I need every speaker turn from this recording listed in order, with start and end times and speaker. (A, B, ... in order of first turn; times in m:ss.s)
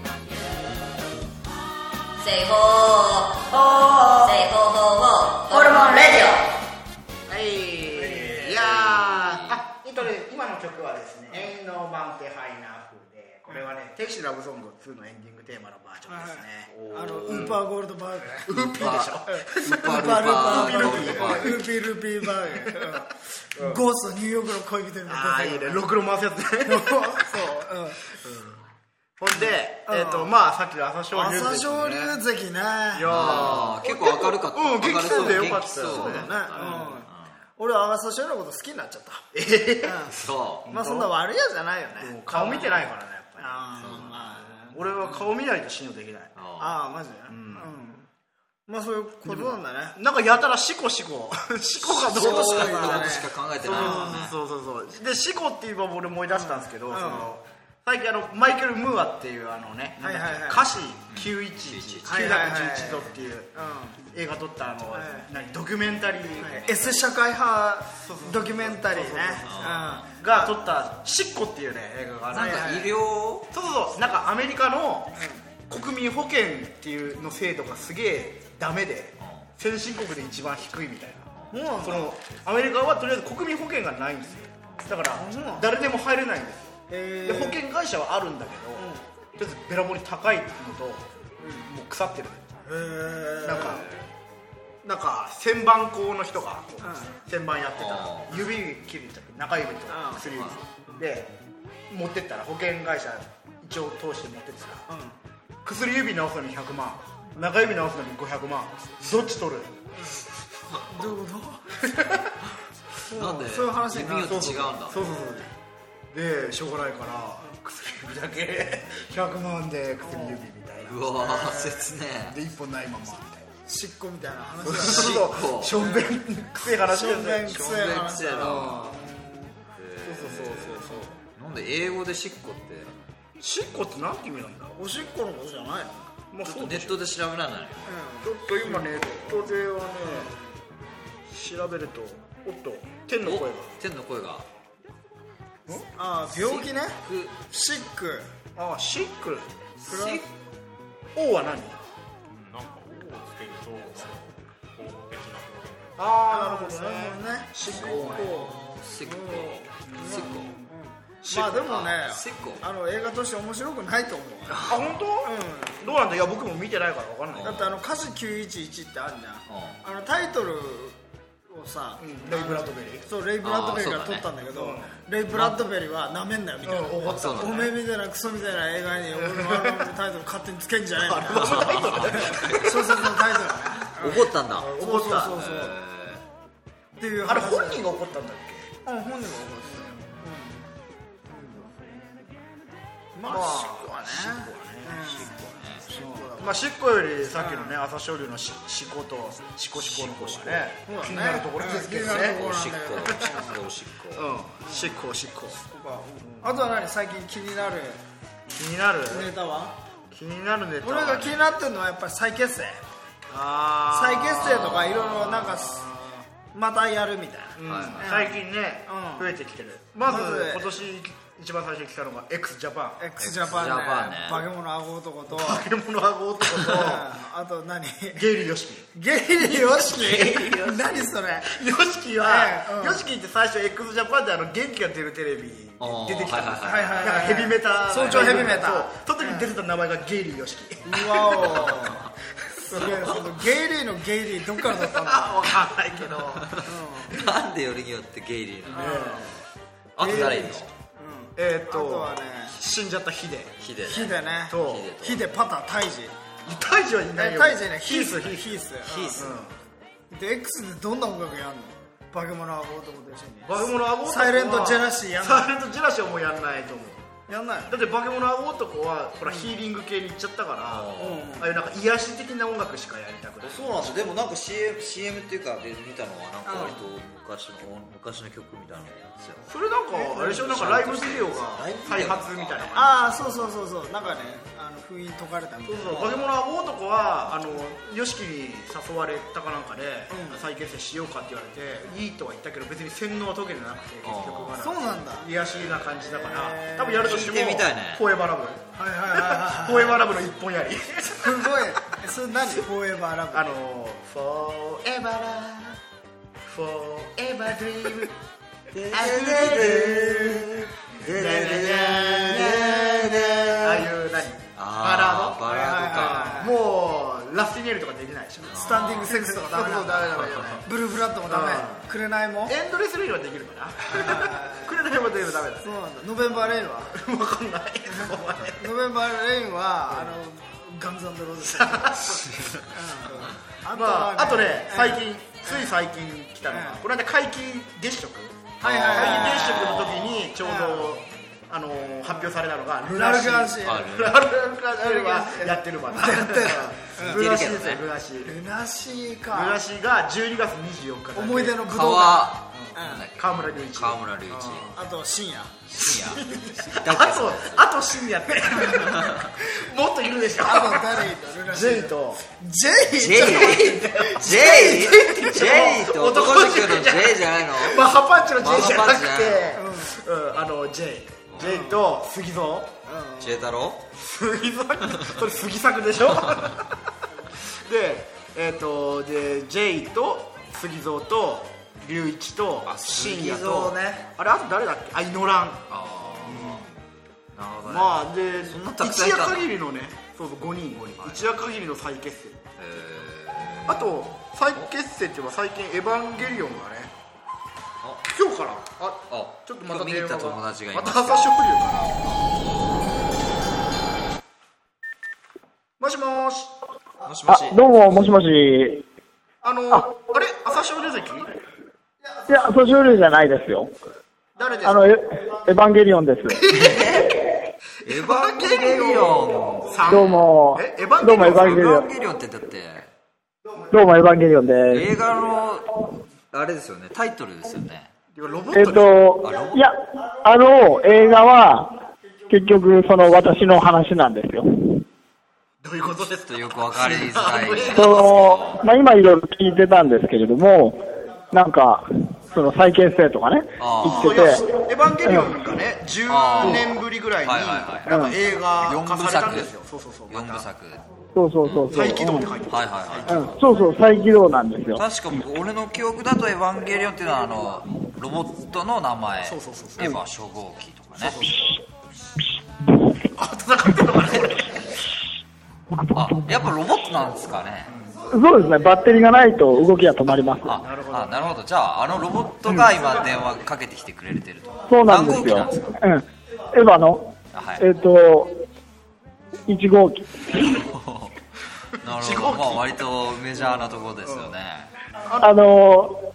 0:03.5-0:04.8 A
0:05.4-0:06.3 A
0:07.3-0:16.7 B
0:08.1-0:08.3 C
0:08.5-0:09.6 D
0:16.1-0:18.5 C
0:16.7-0:17.6 D
0:17.3-0:17.6 B
0:18.5-0:21.7 B
0:18.5-0:21.6 D
0:19.3-0:25.8 C
0:22.7-0:23.0 B
0:23.6-0:23.8 B
0:25.1-0:27.4 B
0:26.7-0:28.0 C
0:28.1-0:28.6 B
0:29.2-0:32.2 B
0:29.4-0:30.3 C
0:31.1-0:33.6 C
0:32.9-0:37.0 B
0:33.1-0:37.3 D
0:35.0-0:39.3 C
0:39.3-0:40.0 B
0:39.8-0:40.1 C
0:40.1-0:40.7 D
0:40.6-0:41.1 B
0:40.7-0:42.8 C
0:42.0-0:46.3 B
0:43.4-0:44.7 C
0:43.8-0:44.2 D
0:46.4-0:46.8 D
0:46.6-0:48.1 C
0:47.3-0:47.7 B
0:48.7-0:50.0 C
0:49.2-1:07.0 B
0:52.0-0:54.4 D
0:52.1-0:54.2 C
0:56.3-0:57.3 C
1:00.0-1:00.7 C
1:01.1-1:02.5 D
1:02.1-1:04.0 C
1:04.9-1:05.3 C
1:06.4-1:10.5 C
1:08.0-1:12.9 B
1:09.4-1:09.9 D
1:12.3-1:13.5 D
1:12.3-1:12.9 C
1:13.5-1:21.3 B
1:21.5-1:22.1 C
1:21.8-1:32.6 B
1:25.2-1:25.7 C
1:26.9-1:27.6 C
1:28.8-1:29.1 C
1:31.4-1:31.7 C
1:32.7-1:33.8 C
1:33.4-1:33.9 B
1:34.8-1:41.3 B
1:36.8-1:37.1 C
1:37.8-1:38.4 D
1:39.9-1:40.2 C
1:40.3-1:40.6 D
1:41.9-1:44.9 B
1:44.9-1:45.2 C
1:45.6-1:49.8 B
1:50.0-1:50.2 C
1:50.8-1:51.6 C
1:51.8-1:52.3 B
1:53.1-1:54.7 C
1:53.1-1:55.0 D
1:54.2-1:55.5 B
1:56.1-2:01.7 B
2:00.0-2:00.4 C
2:00.8-2:02.4 D
2:01.2-2:01.8 C
2:02.2-2:03.5 B
2:03.7-2:06.1 C
2:04.6-2:07.7 B
2:04.7-2:05.8 D
2:06.9-2:09.5 C
2:07.4-2:09.0 D
2:08.3-2:09.0 B
2:09.8-2:13.0 D
2:10.0-2:11.1 B
2:13.4-2:14.8 B
2:14.8-2:16.1 C
2:16.3-2:17.1 B
2:16.4-2:17.9 D
2:17.8-2:20.6 C
2:18.2-2:20.3 B
2:21.3-2:23.8 B
2:23.2-2:24.5 D
2:26.0-2:28.3 C
2:26.3-2:27.4 D
2:28.6-2:29.5 B
2:29.8-2:30.3 D
2:29.9-2:30.3 C
2:31.2-2:31.8 B
2:32.3-2:36.0 E
2:36.0-2:38.5 B
2:36.3-2:45.8 C
2:37.7-2:40.6 D
2:39.8-2:40.6 B
2:41.2-2:41.8 B
2:41.4-2:42.7 D
2:44.5-2:44.9 D
2:44.6-2:47.7 B
2:47.3-2:47.8 D
2:47.4-2:51.0 C
2:49.5-2:49.8 D
2:51.5-3:05.8 C
2:52.0-2:53.1 B
2:53.4-2:54.3 D
2:54.5-2:55.0 B
2:55.3-2:55.6 D
2:56.6-2:57.7 B
2:57.0-2:57.8 D
2:59.2-2:59.9 B
3:01.0-3:03.1 B
3:01.3-3:03.1 D
3:03.9-3:06.2 D
3:04.5-3:05.4 B
3:07.0-3:07.9 C
3:07.2-3:08.8 B
3:08.8-3:10.7 C
3:09.6-3:10.2 B
3:11.3-3:11.7 C
3:11.8-3:12.1 B
3:13.2-3:16.4 C
3:13.2-3:15.3 B
3:15.0-3:16.3 D
3:16.1-3:23.4 B
3:17.4-3:17.8 C
3:19.9-3:20.6 D
3:20.8-3:23.6 C
3:21.9-3:24.3 D
3:24.1-3:25.6 B
3:24.7-3:25.0 C
3:25.7-3:28.0 C
3:26.2-3:26.7 B
3:28.5-3:29.3 B
3:29.1-3:29.8 C
3:30.1-3:31.4 B
3:30.8-3:32.8 C
3:33.3-3:36.2 B
3:33.9-3:35.8 C
3:34.5-3:35.0 D
3:36.5-3:39.3 C
3:37.6-3:43.0 B
3:37.6-3:38.1 D
3:40.0-3:40.7 C
3:43.0-3:45.7 C
3:43.2-3:44.5 D
3:45.3-3:47.1 B
3:46.6-3:48.2 C
3:48.1-3:48.9 B
3:48.9-3:51.6 C
3:49.6-3:51.0 D
3:51.4-4:03.1 B
3:52.2-3:53.0 C
3:55.8-3:57.3 D
3:56.6-3:59.5 C
3:57.9-3:58.6 D
4:00.9-4:02.0 C
4:01.4-4:01.9 D
4:02.7-4:05.4 C
4:04.6-4:06.6 B
4:06.6-4:09.0 D
4:06.6-4:07.1 C
4:08.7-4:09.3 C
4:08.7-4:09.4 B
4:10.0-4:10.6 B
4:10.0-4:10.7 D
4:10.0-4:12.6 C
4:11.4-4:13.6 B
4:13.6-4:15.2 D
4:13.9-4:16.1 C
4:14.5-4:14.9 B
4:16.4-4:18.6 B
4:17.2-4:19.4 C
4:18.8-4:19.3 D
4:19.1-4:19.6 B
4:20.1-4:25.5 C
4:23.4-4:27.1 B
4:27.3-4:27.8 C
4:27.7-4:34.0 B
4:29.2-4:29.5 C
4:30.7-4:31.3 D
4:31.0-4:31.5 C
4:33.4-4:39.5 D
4:36.4-4:36.8 C
4:39.5-4:43.2 B
4:39.9-4:40.2 C
4:40.1-4:43.2 D
4:42.8-4:46.1 C
4:45.7-5:01.7 B
4:50.1-4:50.4 C
4:54.0-4:54.7 D
4:54.6-4:55.3 C
4:55.9-4:57.3 C
4:57.0-4:58.0 D
4:58.8-5:00.0 C
5:01.2-5:03.5 C
5:03.3-5:05.8 B
5:06.4-5:08.1 B
5:08.7-5:13.9 D
5:08.9-5:20.7 B
5:12.3-5:12.7 C
5:14.6-5:16.5 D
5:15.5-5:16.5 C
5:18.5-5:19.2 D
5:18.5-5:22.6 C
5:20.1-5:20.6 D
5:21.3-5:21.9 B
5:22.4-5:28.7 B
5:23.9-5:24.7 C
5:25.6-5:27.0 C
5:27.9-5:32.0 C
5:29.9-5:30.2 B
5:31.4-5:32.3 B
5:32.2-5:32.6 D
5:32.7-5:35.7 C
5:33.1-5:48.4 B
5:36.5-5:36.8 C
5:38.6-5:39.8 C
5:38.6-5:40.3 D
5:40.4-5:41.0 C
5:42.8-5:43.9 C
5:43.6-5:44.2 D
5:44.8-5:47.2 C
5:47.0-5:47.9 D
5:48.3-5:49.6 C
5:49.3-5:51.8 B
5:51.2-5:53.0 C
5:51.6-5:54.7 D
5:52.5-5:54.8 B
5:54.7-5:55.5 C
5:55.7-5:57.7 D
5:55.8-6:02.2 B
5:58.8-5:59.3 D
6:00.4-6:03.8 C
6:03.0-6:09.6 D
6:03.0-6:12.8 B
6:09.6-6:10.0 C
6:11.3-6:11.6 D
6:11.4-6:11.8 C
6:12.9-6:13.4 C
6:13.2-6:13.9 D
6:14.0-6:16.8 B
6:17.4-6:25.7 B
6:22.7-6:24.1 D
6:25.7-6:26.7 D
6:26.2-6:26.7 B
6:27.3-6:29.5 D
6:27.6-6:32.5 B
6:31.0-6:31.3 D
6:32.6-6:34.7 D
6:33.7-6:36.9 B
6:38.0-6:42.0 B
6:39.1-6:41.4 D
6:42.0-6:42.5 D
6:45.8-6:46.6 B
6:47.0-6:47.5 D
6:47.3-6:48.8 F
6:49.4-6:51.3 B
6:52.3-6:53.7 F
6:54.4-6:54.9 B
6:54.7-6:56.4 F
6:56.3-6:57.1 B
6:56.5-6:57.2 D
6:57.8-7:00.2 D
6:57.8-7:01.8 B
6:59.9-7:01.8 F
7:01.1-7:02.9 D
7:03.7-7:04.9 F
7:04.7-7:07.9 D
7:08.1-7:09.0 B
7:08.6-7:11.7 F
7:09.2-7:09.6 D
7:12.3-7:14.8 F
7:15.6-7:18.4 B
7:16.1-7:18.6 D
7:17.8-7:20.8 F
7:21.3-7:24.5 F
7:23.6-7:24.2 D
7:23.8-7:30.5 B
7:26.1-7:29.5 D
7:30.1-7:30.8 D
7:31.2-7:32.3 F
7:31.5-7:31.8 D
7:31.7-7:33.3 B
7:31.8-7:32.2 C
7:32.4-7:33.4 D
7:33.1-7:34.8 F
7:34.8-7:41.3 D
7:39.2-7:40.0 B
7:41.0-7:41.5 B
7:43.2-7:44.7 B
7:45.9-7:47.7 D
7:47.7-7:48.0 B
7:48.2-7:50.5 F
7:50.4-7:55.8 D
7:50.6-7:51.4 B
7:52.8-7:53.1 B
7:54.7-7:58.4 F
7:57.3-7:57.7 D
7:59.5-8:00.2 F
8:00.6-8:01.1 D
8:01.8-8:04.7 D
8:01.8-8:02.8 B
8:04.0-8:04.4 B
8:05.1-8:05.4 B
8:05.2-8:06.0 F